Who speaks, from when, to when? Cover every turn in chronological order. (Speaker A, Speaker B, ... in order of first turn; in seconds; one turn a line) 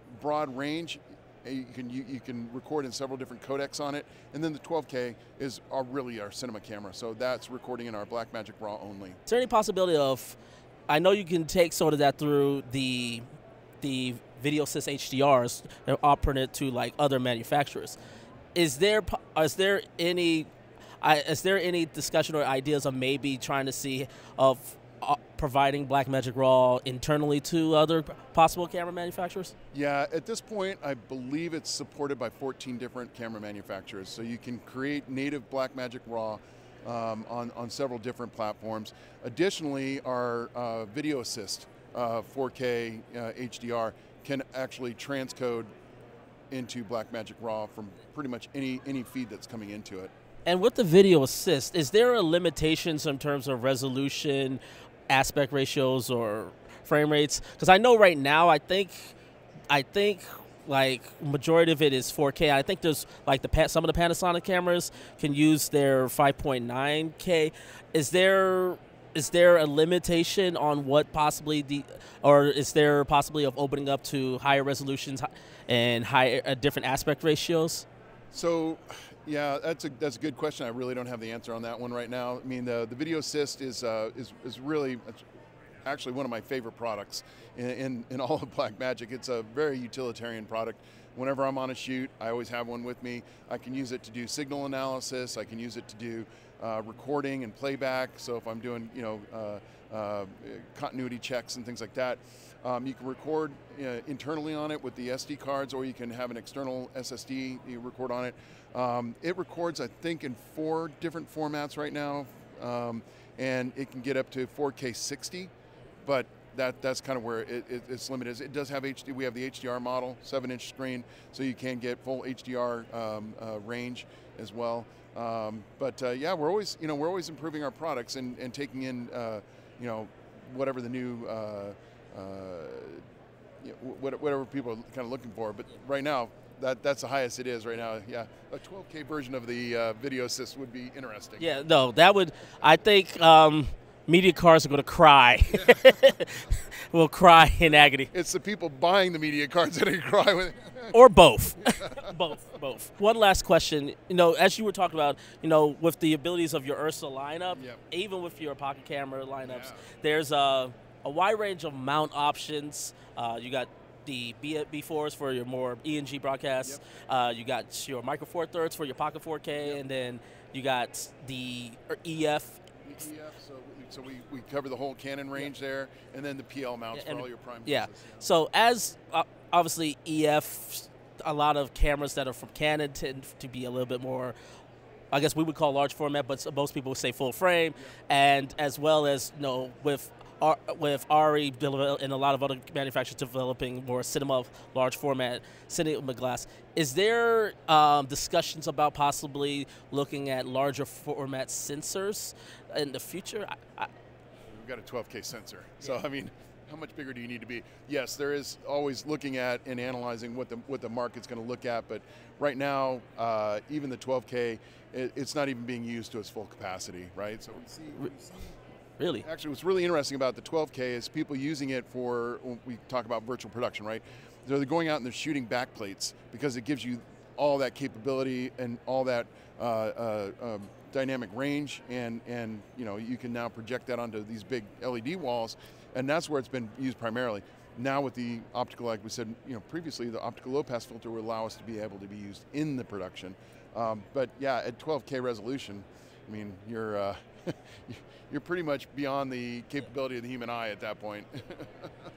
Speaker A: 0.2-9.2
Speaker B: 9.3-10.3
Speaker B: 10.9-13.2
Speaker B: 13.8-18.0
Speaker B: 18.6-20.5
Speaker B: 21.0-29.5
Speaker A: 29.7-45.7
Speaker A: 46.5-50.1
Speaker B: 50.5-59.2
Speaker B: 59.7-77.9
Speaker A: 78.3-85.2
Speaker A: 85.8-115.5
Speaker A: 116.0-133.0
Speaker A: 133.6-141.5
Speaker B: 141.4-148.1
Speaker A: 148.1-151.0
Speaker B: 150.9-172.6
Speaker A: 151.6-152.1
Speaker A: 157.5-157.8
Speaker A: 159.4-159.8
Speaker A: 169.6-169.8
Speaker A: 172.8-178.3
Speaker B: 176.9-184.3
Speaker B: 185.1-203.9
Speaker A: 204.5-218.6
Speaker B: 219.0-219.3
Speaker A: 219.2-251.9